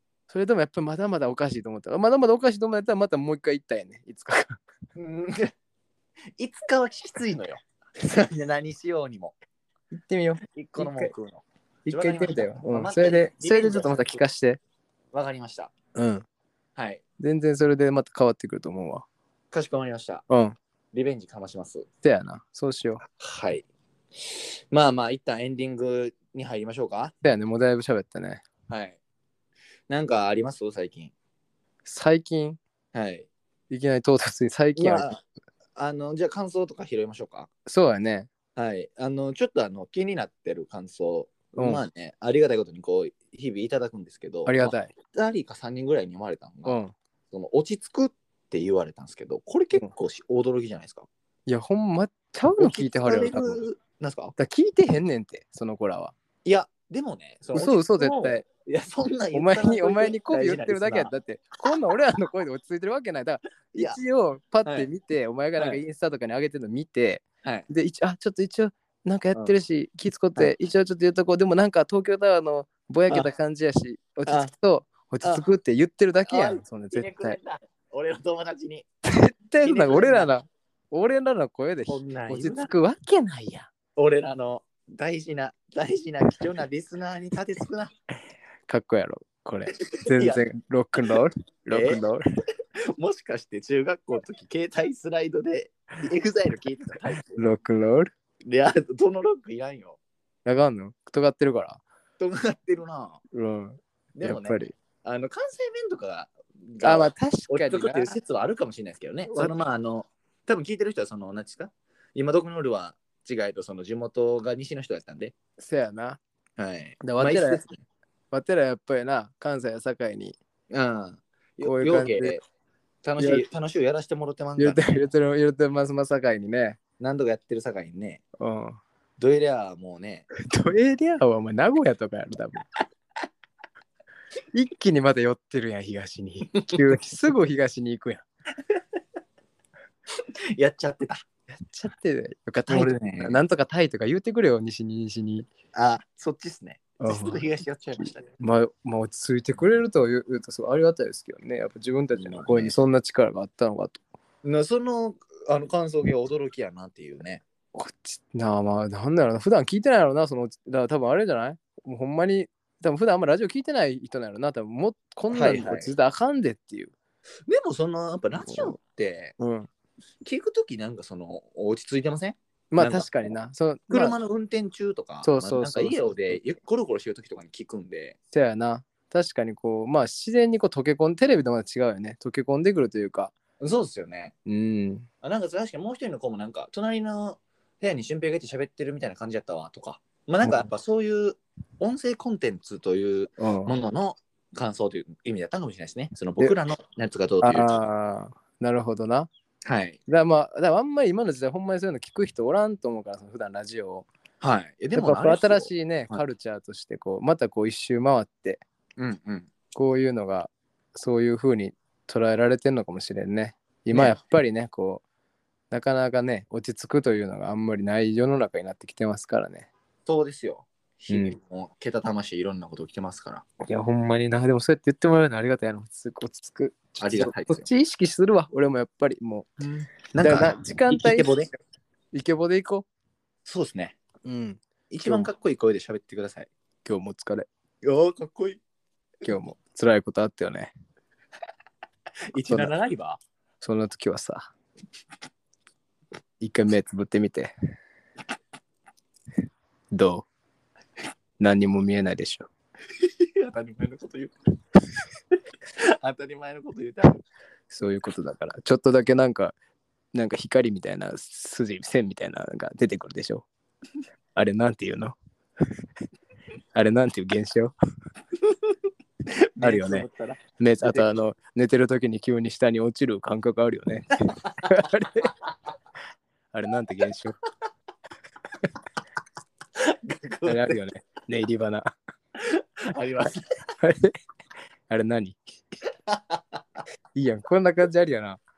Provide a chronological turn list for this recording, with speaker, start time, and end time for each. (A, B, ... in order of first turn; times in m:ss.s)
0:00.3-0:04.6 A
0:05.0-0:05.5 B
0:06.4-0:09.3 B
0:10.0-0:11.1 A
0:10.5-0:14.2 B
0:11.9-0:14.6 A
0:15.1-0:15.7 B
0:16.0-0:16.2 A
0:16.8-0:17.0 B
0:17.2-0:19.1 A
0:19.5-0:20.2 B
0:20.3-0:20.6 A
0:20.9-0:21.9 B
0:22.0-0:23.0 A
0:23.2-0:23.7 B
0:24.2-0:27.1 B
0:27.2-0:28.4 A
0:28.7-0:29.0 B
0:29.9-0:31.1 B
0:31.8-0:32.6 A
0:32.9-0:33.3 B
0:33.7-0:35.1 A
0:34.8-0:35.2 B
0:35.8-0:37.5 B
0:37.7-0:38.3 A
0:38.6-0:46.8 B
0:41.6-0:41.8 A
0:44.5-0:44.9 A
0:46.6-0:46.9 A
0:47.3-0:51.1 B
0:51.5-0:53.6 A
0:52.6-0:54.4 B
0:54.4-0:56.1 A
0:56.4-1:01.1 B
0:57.5-0:58.4 A
0:59.3-1:17.4 A
1:03.7-1:04.0 B
1:04.6-1:04.9 B
1:15.2-1:15.5 B
1:16.3-1:18.9 B
1:19.0-1:23.7 A
1:19.6-1:20.3 B
1:21.9-1:22.7 B
1:24.0-1:27.9 B
1:28.7-1:32.2 A
1:29.7-1:30.4 B
1:31.7-1:32.0 B
1:32.9-1:37.5 B
1:37.3-1:38.1 A
1:38.4-1:40.0 B
1:40.4-1:41.8 A
1:42.2-1:43.2 B
1:43.3-1:44.7 A
1:44.2-1:55.3 B
1:46.8-1:48.1 A
1:55.6-1:56.2 A
1:56.6-1:57.8 B
1:57.0-1:57.6 A
1:58.3-2:00.4 A
2:00.7-2:02.4 B
2:01.6-2:02.4 A
2:03.0-2:05.1 B
2:03.2-2:03.5 A
2:04.6-2:06.8 A
2:07.0-2:08.2 B
2:08.4-2:08.8 A
2:09.2-2:10.3 B
2:10.4-2:12.6 A
2:14.5-2:18.2 A
2:20.6-2:21.2 B
2:21.5-2:25.5 A
2:22.7-2:23.4 B
2:25.7-2:28.3 B
2:27.0-2:27.5 A
2:28.0-2:34.0 A
2:32.2-2:32.8 B
2:34.4-2:37.4 B
2:37.8-2:46.9 A
2:45.3-2:45.9 B
2:47.5-2:49.3 B
2:48.5-2:48.8 A
2:49.4-2:49.7 A
2:50.2-2:53.3 B
2:52.7-2:54.2 A
2:53.9-2:58.2 B
2:55.2-2:56.4 A
2:58.3-3:03.3 A
3:03.6-3:04.4 B
3:04.5-3:05.1 A
3:05.2-3:17.8 B
3:13.4-3:13.7 A
3:17.4-3:19.3 A
3:19.6-3:20.0 B
3:20.1-3:24.1 A
3:24.4-3:26.2 B
3:24.9-3:28.6 A
3:29.0-3:29.5 B
3:29.8-3:35.0 A
3:35.7-3:39.7 A
3:40.1-3:43.4 B
3:41.1-3:41.4 A
3:43.6-3:49.5 A
3:47.0-3:47.7 B
3:49.6-3:51.5 B
3:50.2-3:51.4 A
3:52.1-3:52.9 A
3:53.4-3:54.0 B
3:54.2-3:55.3 A
3:54.9-3:56.5 B
3:56.8-3:57.5 A
3:57.8-3:58.6 B
3:59.2-4:00.7 A
4:02.3-4:03.2 B
4:03.6-4:04.5 A
4:06.4-4:07.5 A
4:09.9-4:10.3 A
4:11.4-4:12.5 A
4:13.0-4:14.3 B
4:15.8-4:17.2 B
4:17.7-4:19.6 A
4:20.1-4:23.5 A
4:24.4-4:25.2 A
4:26.7-4:27.7 A
4:29.6-4:31.1 B
4:29.6-4:30.1 A
4:30.6-4:35.3 A
4:36.5-4:37.4 A
4:39.8-4:40.8 B
4:40.5-4:41.9 A
4:42.4-4:43.4 B
4:43.8-4:44.1 A
4:44.9-4:45.4 A
4:46.1-4:46.6 B
4:47.2-4:48.4 A